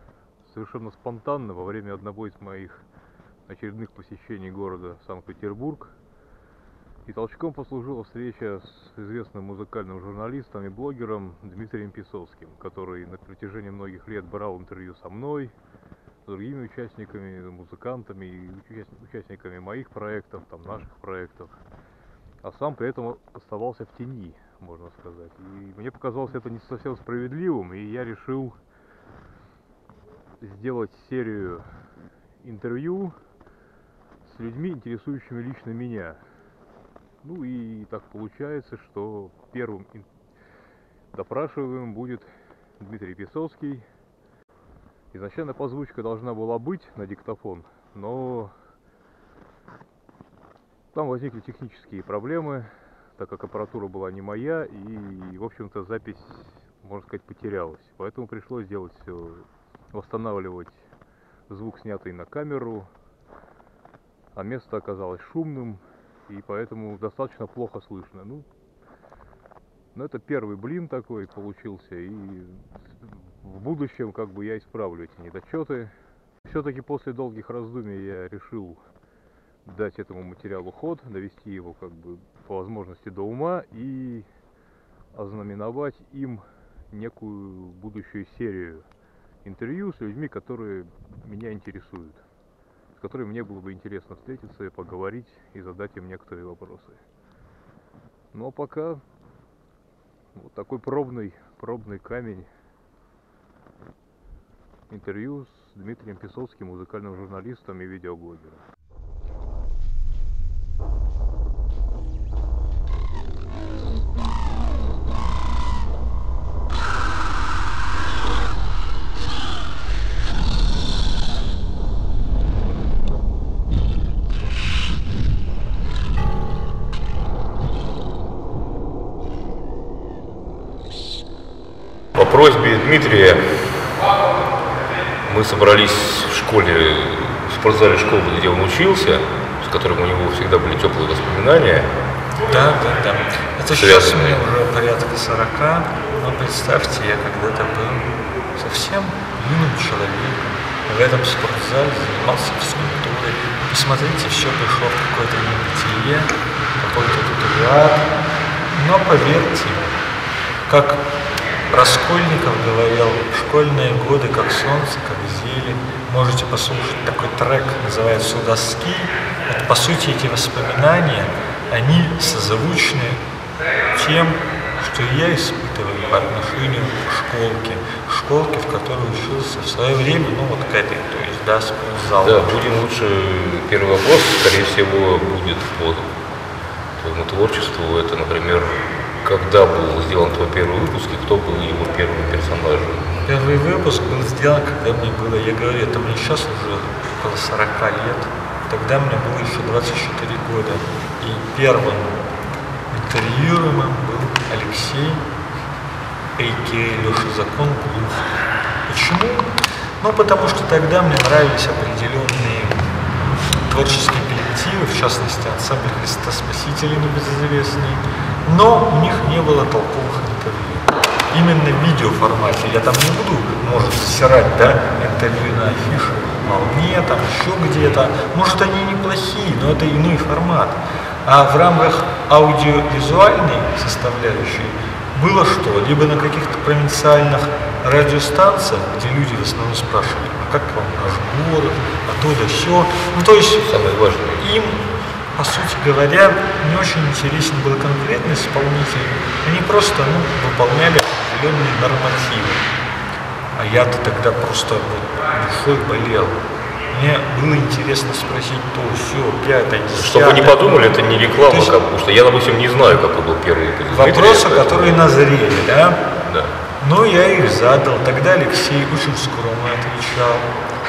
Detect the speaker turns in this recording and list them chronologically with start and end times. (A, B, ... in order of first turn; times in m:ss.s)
0:00.4-0:02.8 A
0:03.5-0:05.9 A
0:07.0-0:15.5 A
0:16.2-0:21.5 A
0:22.4-0:28.6 A
0:30.4-0:31.6 A
0:32.4-0:33.1 A
0:34.2-0:36.2 A
0:37.2-0:40.0 A
0:41.1-0:42.3 A
0:42.8-0:43.8 A
0:45.1-0:48.5 A
0:50.9-1:00.8 A
1:01.5-1:02.9 A
1:04.3-1:08.4 A
1:09.9-1:15.9 A
1:16.4-1:18.8 A
1:19.6-1:24.2 A
1:25.1-1:28.8 A
1:29.4-1:32.2 A
1:33.0-1:37.0 A
1:38.3-1:39.0 A
1:40.3-1:42.5 A
1:44.9-1:48.6 A
2:12.1-2:13.6 B
2:15.2-2:21.9 B
2:22.4-2:38.1 C
2:23.7-2:24.4 B
2:38.7-2:39.9 C
2:40.7-2:41.1 C
2:41.7-2:53.2 C
2:53.9-3:02.6 C
3:02.2-3:06.1 B
3:07.0-3:13.2 B
3:13.2-3:22.2 C
3:22.9-3:25.2 C
3:26.4-3:28.3 C
3:28.9-3:32.9 C
3:33.6-4:03.7 C
4:03.6-4:04.5 B
4:04.3-4:12.6 C
4:13.6-4:16.4 C
4:16.9-4:21.8 C
4:20.0-4:25.1 B
4:23.9-4:26.0 C
4:26.2-4:26.5 B
4:26.8-4:30.5 C